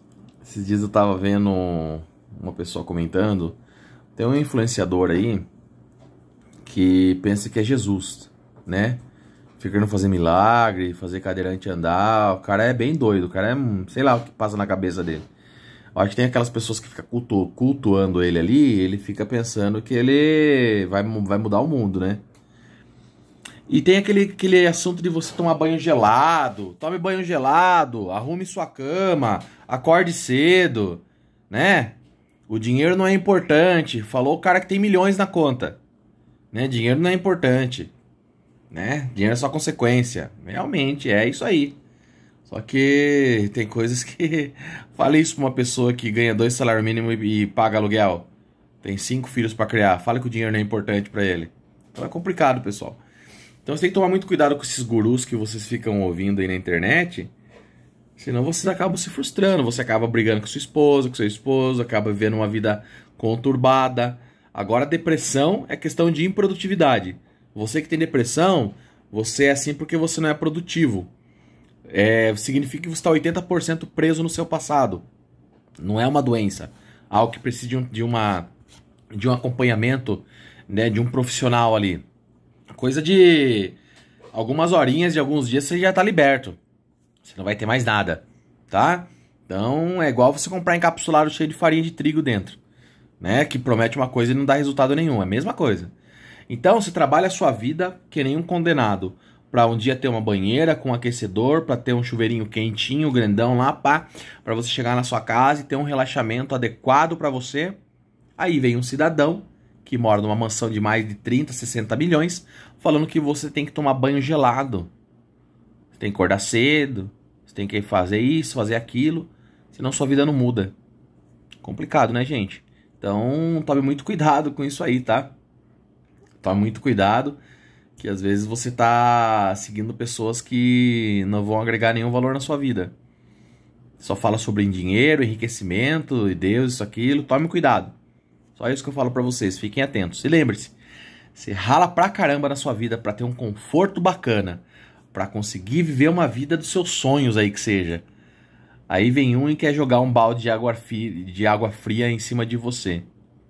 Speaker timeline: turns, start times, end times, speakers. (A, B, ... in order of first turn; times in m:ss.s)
0:00.4-0:03.6 A
0:04.2-0:05.4 A
0:06.6-0:09.0 A
0:09.6-0:15.3 A
0:15.9-0:22.2 A
0:23.7-0:32.0 A
0:32.5-0:35.8 A
0:36.5-0:37.9 A
0:38.7-0:41.8 A
0:42.4-0:48.3 A
0:48.8-0:53.0 A
0:53.6-0:57.3 A
0:58.2-1:11.1 A
1:11.9-1:15.0 A
1:15.8-1:18.5 A
1:19.1-1:22.0 A
1:22.7-1:23.8 A
1:24.3-1:26.6 A
1:27.2-1:32.6 A
1:33.2-1:35.9 A
1:36.5-1:47.8 A
1:48.4-1:54.9 A
1:55.9-2:00.7 A
2:01.6-2:05.3 A
2:06.4-2:07.4 A
2:08.0-2:12.9 A
2:14.0-2:17.9 A
2:18.5-2:20.8 A
2:21.3-2:28.0 A
2:28.9-2:33.1 A